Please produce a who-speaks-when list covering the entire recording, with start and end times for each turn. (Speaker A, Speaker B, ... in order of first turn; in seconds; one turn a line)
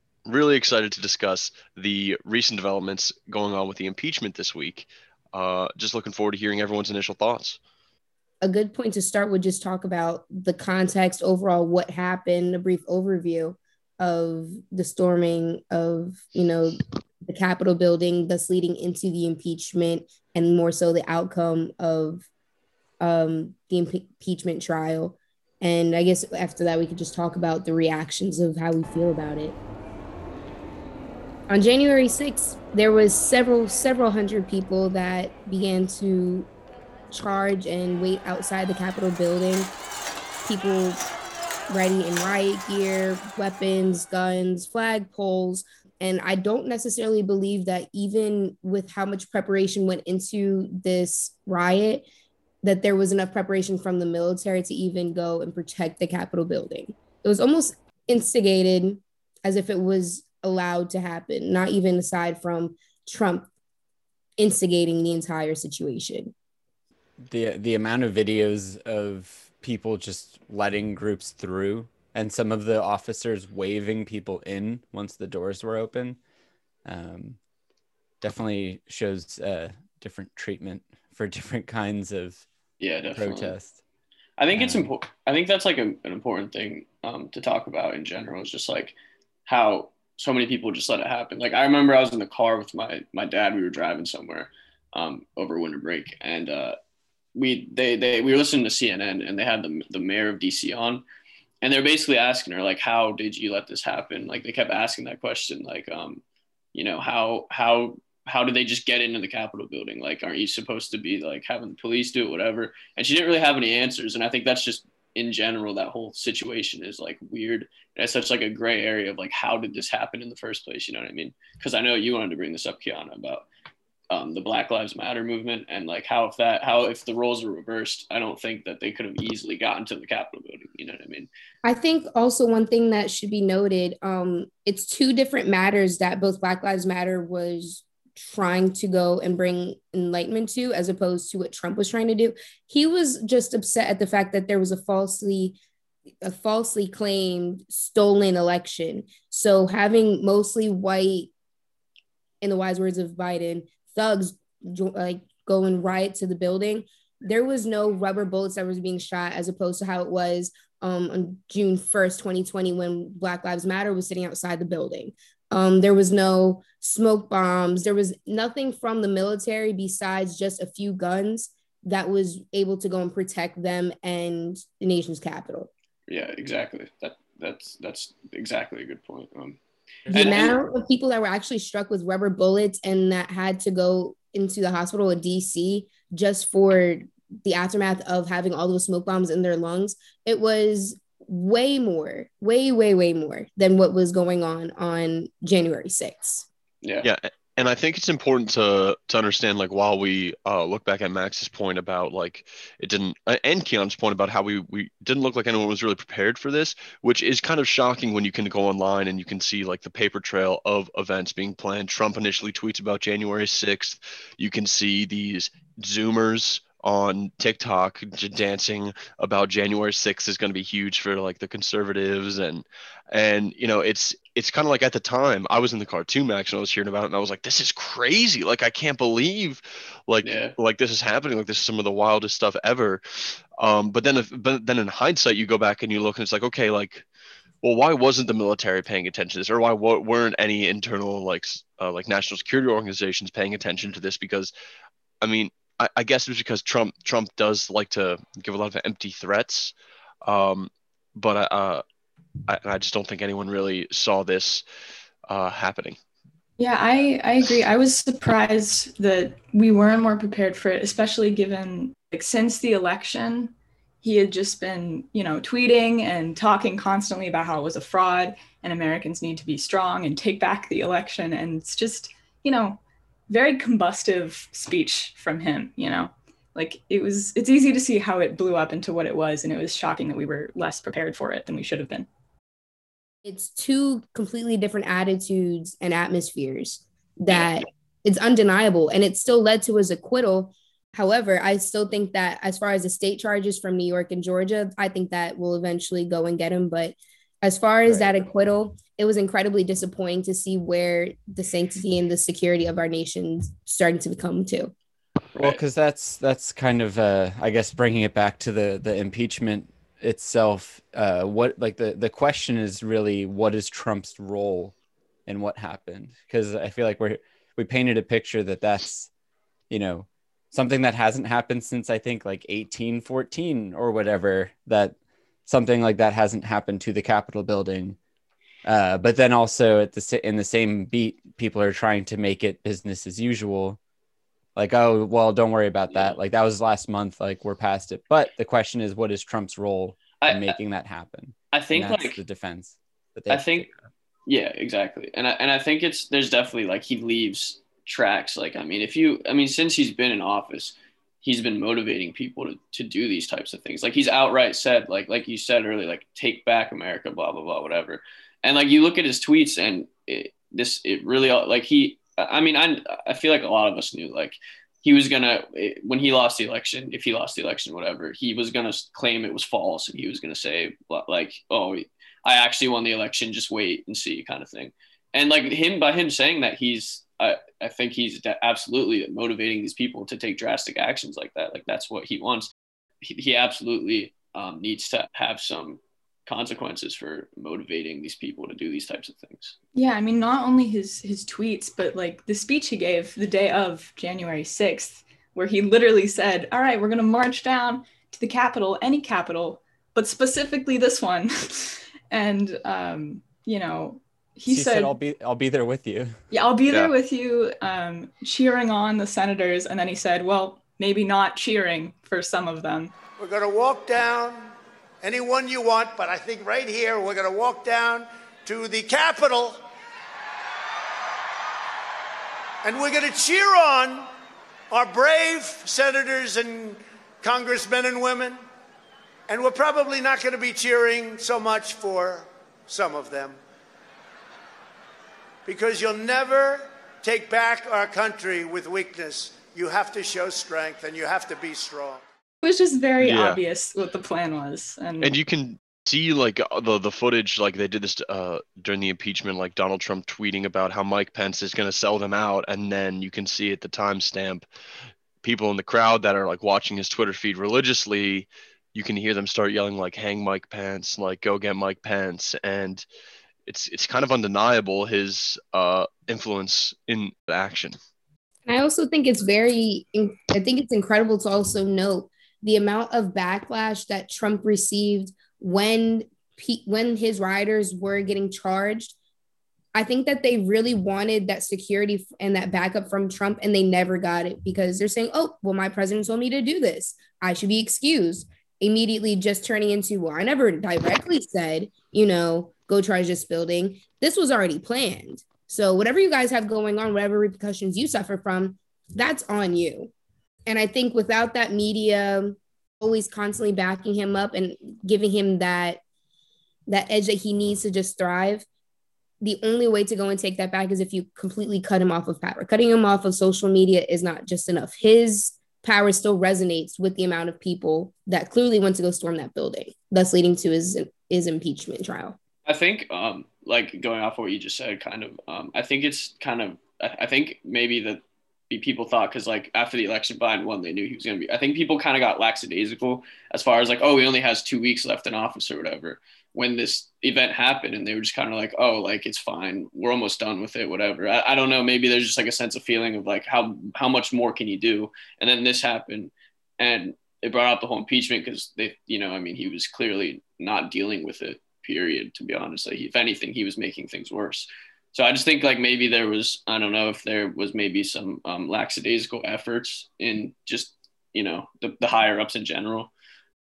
Speaker A: 0.3-7.6
Speaker B: 8.4-22.3
Speaker B: 23.0-29.6
Speaker B: 31.5-36.5
Speaker B: 37.1-39.7
Speaker B: 40.4-41.1
Speaker B: 41.7-52.1
Speaker B: 52.6-63.5
Speaker B: 64.4-66.3
Speaker C: 67.2-76.2
Speaker C: 76.8-77.4
Speaker C: 78.2-82.5
Speaker D: 82.8-83.5
Speaker C: 83.1-83.8
Speaker D: 84.4-89.0
Speaker C: 84.5-84.9
Speaker D: 89.5-96.8
Speaker D: 97.3-101.0
Speaker D: 101.6-106.2
Speaker D: 106.7-123.5
Speaker D: 124.1-131.3
Speaker B: 131.6-145.6
Speaker B: 146.2-151.3
Speaker B: 152.4-175.7
Speaker D: 176.1-180.6
Speaker B: 180.1-196.4
Speaker D: 196.8-197.1
Speaker A: 197.0-233.0
Speaker D: 230.2-230.5
Speaker A: 233.6-237.1
Speaker A: 237.6-244.5
Speaker A: 245.2-251.8
Speaker A: 252.5-254.6
Speaker A: 255.3-256.0
Speaker E: 256.6-282.1
Speaker B: 283.2-304.7
Speaker C: 297.9-298.1
Speaker D: 305.3-305.6
Speaker C: 305.4-314.8
Speaker C: 315.3-319.1
Speaker C: 319.7-328.0
Speaker C: 328.6-333.8
Speaker C: 334.6-343.7
Speaker D: 340.2-340.6
Speaker D: 341.5-342.2
Speaker D: 343.3-343.7
Speaker D: 344.3-382.5
Speaker D: 383.0-389.6
Speaker E: 389.8-404.9
Speaker C: 404.5-406.2
Speaker E: 406.3-412.9
Speaker F: 413.2-419.6
Speaker F: 422.6-424.1
Speaker F: 424.7-428.4
Speaker F: 429.3-433.4
Speaker F: 435.5-442.0
Speaker E: 442.4-445.2
Speaker A: 443.0-443.4
Speaker A: 445.0-454.5
Speaker A: 455.2-462.9
Speaker A: 463.5-467.8
Speaker B: 468.5-478.9
Speaker B: 479.8-499.9
Speaker B: 500.5-505.8
Speaker B: 506.7-508.5
Speaker B: 509.2-522.2
Speaker D: 522.5-562.9